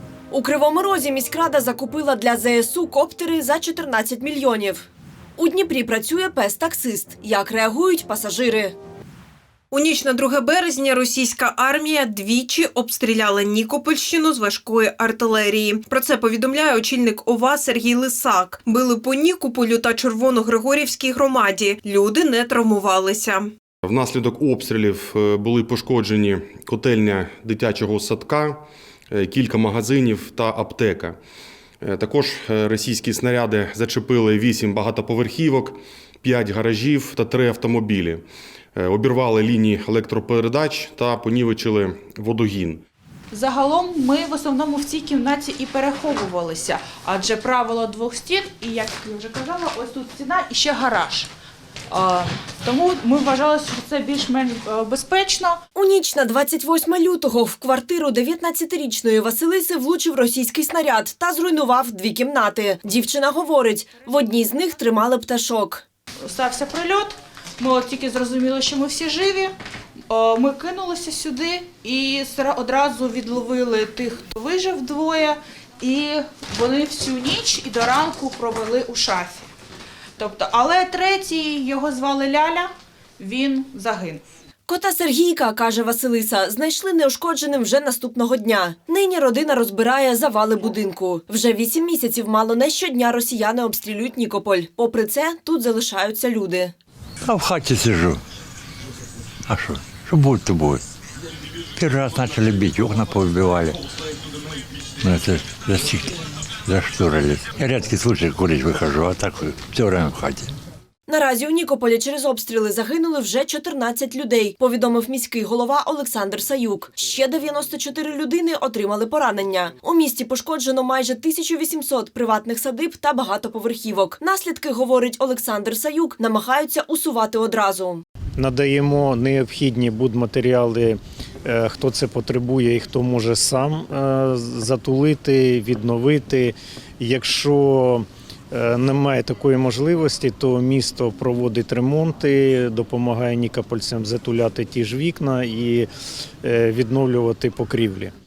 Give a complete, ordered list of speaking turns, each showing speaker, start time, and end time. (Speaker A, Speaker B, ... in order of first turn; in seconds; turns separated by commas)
Speaker A: 0.3-4.9, Speaker A: 5.4-8.8, Speaker B: 9.7-23.5, Speaker C: 23.8-31.2, Speaker C: 31.8-42.8, Speaker D: 43.3-51.3, Speaker D: 51.9-55.6, Speaker A: 55.8-65.8, Speaker D: 66.2-69.5, Speaker D: 70.1-79.5, Speaker D: 80.2-84.2, Speaker A: 84.7-96.7, Speaker E: 97.3-98.2, Speaker E: 99.5-100.8, Speaker E: 101.8-103.7, Speaker E: 105.0-106.0, Speaker E: 106.7-110.5, Speaker A: 111.1-128.0, Speaker F: 128.4-131.0, Speaker F: 131.7-133.9, Speaker F: 134.6-136.5, Speaker F: 137.2-138.0, Speaker F: 138.8-145.9, Speaker F: 146.6-148.1